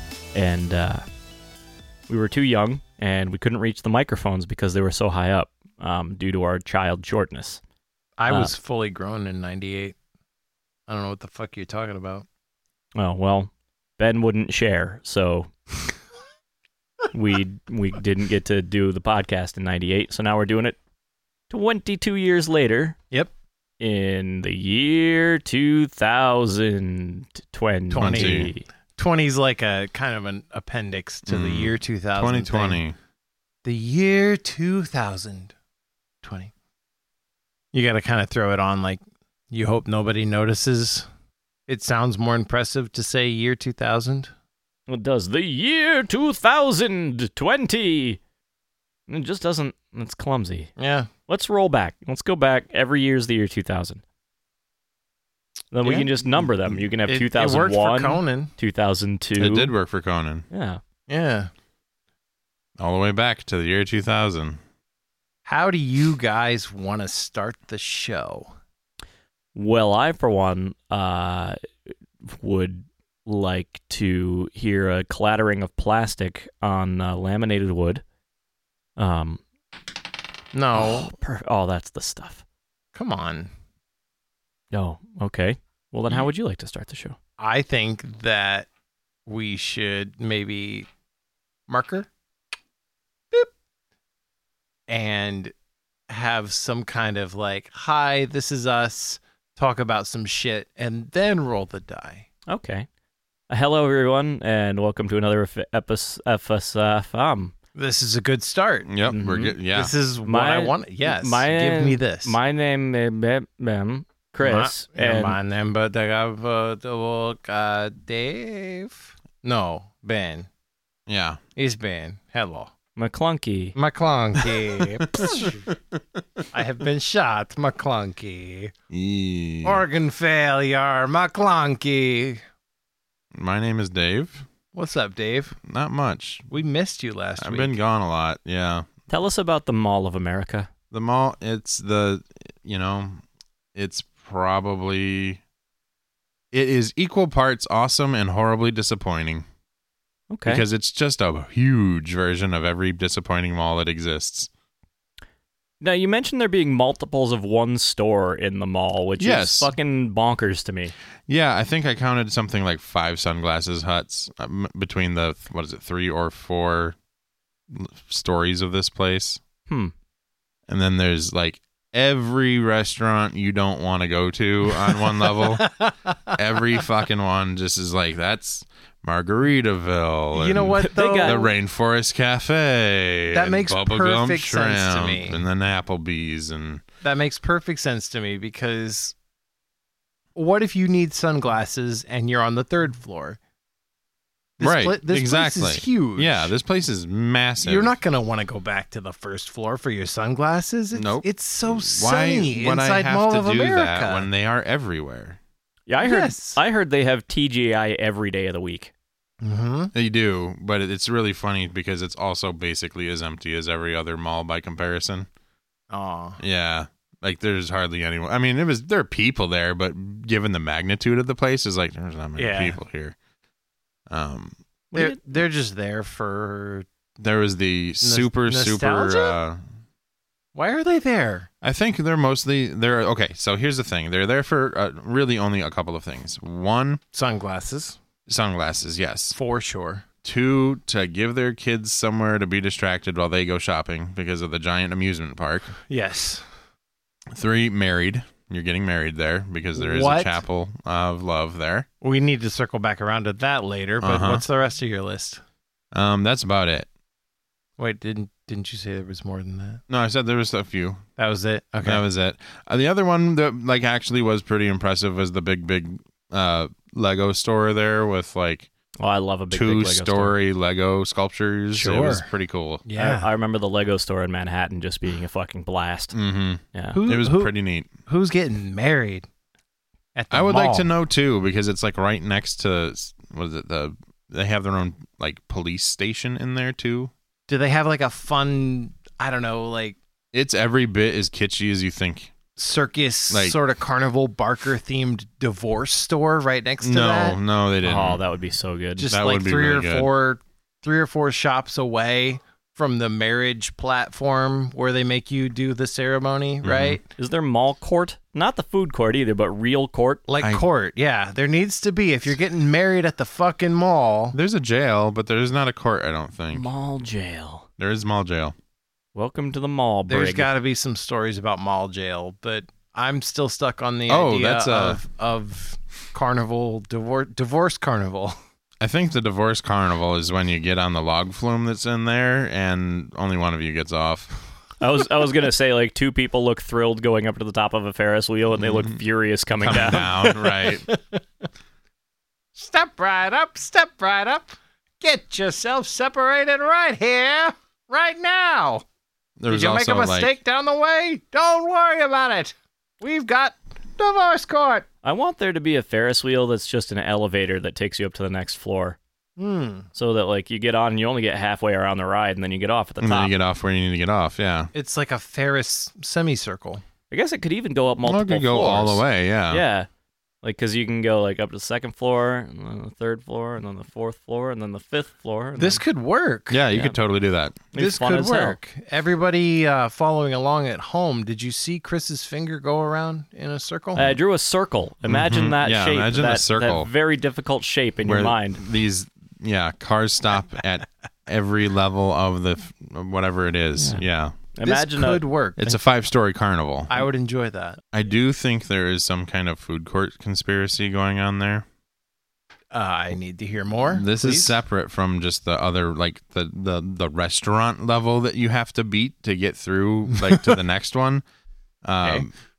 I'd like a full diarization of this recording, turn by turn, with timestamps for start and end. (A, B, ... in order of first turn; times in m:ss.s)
0:00.3-0:01.0 A
0:02.1-0:07.6 A
0:08.2-0:10.0 B
0:10.9-0:12.2 B
0:13.0-0:15.5 A
0:17.1-0:20.8 A
0:21.5-0:23.0 A
0:23.8-0:28.6 A
0:27.9-0:32.8 B
0:27.9-0:28.5 C
0:31.3-0:33.0 C
0:33.6-0:35.5 B
0:36.2-0:36.5 B
0:37.7-0:41.1 B
0:41.7-0:44.3 B
0:44.9-0:48.2 A
0:49.1-0:50.7 A
0:50.8-0:51.1 B
0:51.3-0:54.0 A
0:55.7-0:59.7 A
0:55.8-0:56.1 B
0:57.1-0:58.5 B
0:59.4-1:00.4 C
1:00.5-1:00.8 A
1:01.1-1:01.5 B
1:02.8-1:04.6 C
1:05.4-1:08.5 B
1:09.5-1:11.6 A
1:12.3-1:18.0 A
1:19.0-1:19.4 A
1:20.5-1:21.1 B
1:20.7-1:22.4 A
1:22.9-1:23.5 B
1:24.7-1:27.2 A
1:27.4-1:28.7 B
1:29.3-1:30.9 B
1:31.7-1:32.1 B
1:34.9-1:35.5 B
1:36.1-1:42.3 B
1:42.5-1:42.9 A
1:43.5-1:47.5 A
1:47.7-1:48.9 B
1:48.9-1:49.9 C
1:49.1-1:49.5 A
1:49.7-1:52.3 B
1:50.2-1:55.4 A
1:54.4-2:00.5 B
2:01.1-2:01.4 C
2:01.6-2:02.7 B
2:03.0-2:03.8 A
2:03.8-2:05.6 B
2:04.4-2:06.4 C
2:06.5-2:08.7 B
2:08.9-2:09.8 C
2:09.6-2:12.4 B
2:13.3-2:14.4 C
2:14.7-2:15.6 B
2:15.6-2:16.5 C
2:16.5-2:17.7 B
2:17.4-2:18.8 C
2:19.1-2:20.7 A
2:20.9-2:23.2 C
2:23.7-2:25.4 C
2:26.5-2:29.4 C
2:30.3-2:30.6 A
2:30.4-2:34.5 C
2:35.8-2:40.9 A
2:39.2-2:39.7 C
2:41.3-2:47.0 C
2:47.7-2:49.4 C
2:50.7-2:55.7 C
2:55.4-2:56.3 B
2:56.3-3:06.8 C
3:00.3-3:01.5 B
3:00.8-3:01.4 A
3:03.3-3:05.4 B
3:07.0-3:09.1 B
3:10.4-3:13.4 B
3:14.6-3:16.5 B
3:14.6-3:17.9 C
3:17.6-3:24.3 B
3:20.9-3:25.4 C
3:25.9-3:28.9 A
3:26.0-3:26.6 B
3:29.4-3:29.9 B
3:29.9-3:35.3 C
3:35.9-3:36.4 B
3:36.4-3:43.2 C
3:42.4-3:42.8 B
3:44.1-3:44.6 C
3:44.9-3:45.2 A
3:44.9-3:46.8 B
3:47.2-3:49.6 C
3:48.0-3:49.4 B
3:50.5-3:51.5 B
3:51.6-3:57.0 C
3:57.1-3:58.0 B
3:58.3-3:59.4 C
3:59.3-4:00.0 B
4:00.2-4:05.8 C
4:05.9-4:06.4 B
4:07.3-4:11.9 C
4:09.8-4:10.4 B
4:12.0-4:15.4 B
4:14.0-4:14.4 C
4:15.9-4:16.9 C
4:17.8-4:19.8 B
4:19.9-4:21.0 C
4:21.2-4:22.0 B
4:21.8-4:28.7 C
4:29.0-4:30.3 A
4:29.5-4:32.8 C
4:31.7-4:32.3 B
4:32.8-4:33.3 B
4:33.0-4:36.1 A
4:36.1-4:37.9 C
4:36.9-4:37.5 B
4:38.0-4:39.2 B
4:40.1-4:40.9 B
4:40.3-4:47.1 C
4:47.5-4:50.0 B
4:50.3-4:52.3 C
4:52.6-4:57.4 B
4:53.3-4:53.6 C
4:56.8-4:58.2 C
4:57.8-4:59.1 A
4:59.0-5:07.0 B
4:59.1-5:00.1 C
5:06.6-5:07.0 C
5:07.2-5:10.2 A
5:10.3-5:14.4 B
5:10.4-5:10.6 C
5:14.3-5:16.7 C
5:16.5-5:17.7 A
5:17.8-5:18.5 C
5:19.1-5:20.5 A
5:20.1-5:28.4 B
5:24.1-5:25.0 C
5:28.8-5:34.4 C
5:34.8-5:40.2 A
5:38.6-5:39.0 C
5:39.6-5:40.8 C
5:40.2-5:41.2 B
5:42.6-5:48.8 B
5:49.4-5:50.3 C
5:49.5-5:54.8 B
5:55.0-5:59.0 A
5:59.4-5:59.9 B
5:59.9-6:03.3 A
6:03.0-6:04.7 C
6:04.7-6:06.8 B
6:07.1-6:09.9 A
6:08.0-6:09.6 C
6:10.4-6:15.8 A
6:15.6-6:16.6 B
6:16.5-6:17.6 C
6:17.7-6:18.6 A
6:17.7-6:24.2 B
6:23.9-6:28.6 A
6:25.0-6:26.9 C
6:28.0-6:34.3 C
6:34.5-6:35.2 A
6:34.6-6:35.8 B
6:35.6-6:37.0 C
6:36.9-6:37.8 B
6:37.9-6:41.6 C
6:42.7-6:44.6 B
6:43.9-6:51.2 C
6:51.8-6:52.3 C